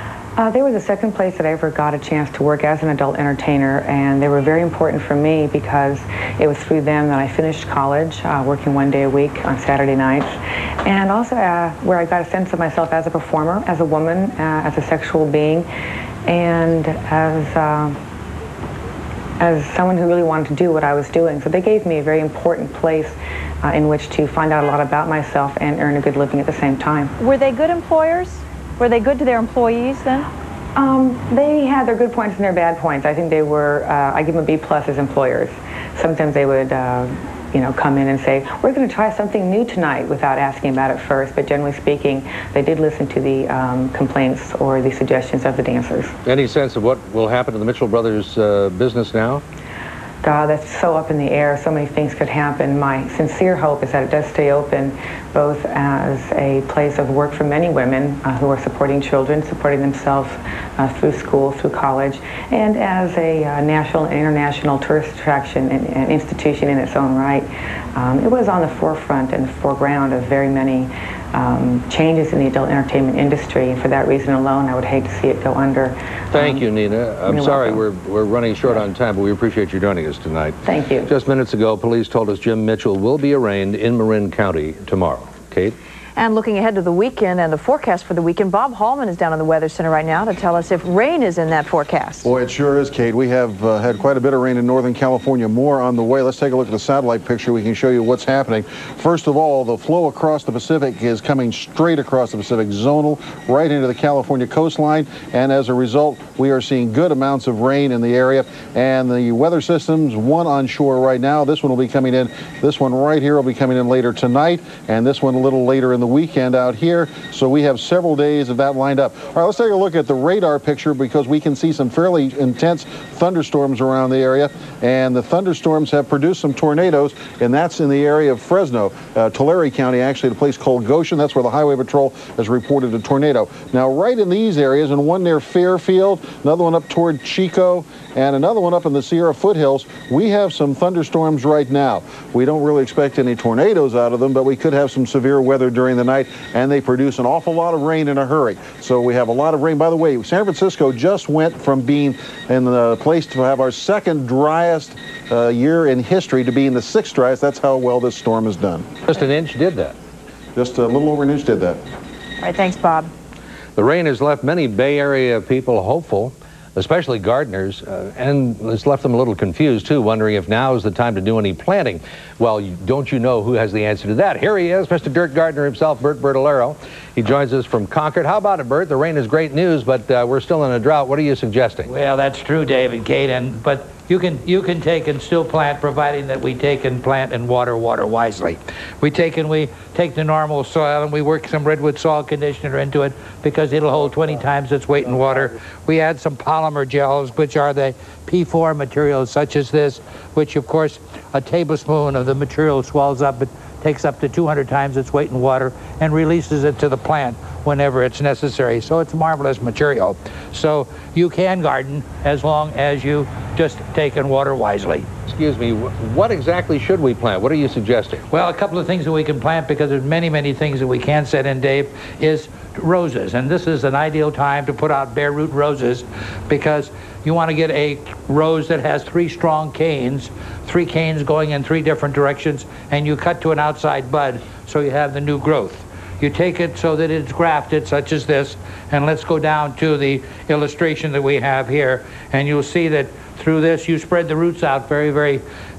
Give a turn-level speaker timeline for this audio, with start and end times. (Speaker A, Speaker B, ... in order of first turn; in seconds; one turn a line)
Speaker A: 0.4-15.7
Speaker A: 16.3-18.0
Speaker A: 19.4-27.1
Speaker B: 27.2-30.3
Speaker A: 30.8-46.1
Speaker C: 46.2-49.4
Speaker A: 50.2-76.7
Speaker C: 76.3-85.8
Speaker A: 77.2-77.8
Speaker A: 80.7-81.1
Speaker B: 86.2-92.3
Speaker D: 92.2-158.9
Speaker C: 159.1-159.9
Speaker D: 160.6-161.8
Speaker B: 162.4-163.1
Speaker C: 163.8-181.9
Speaker E: 181.9-215.1
Speaker C: 215.3-218.2
Speaker E: 218.3-245.4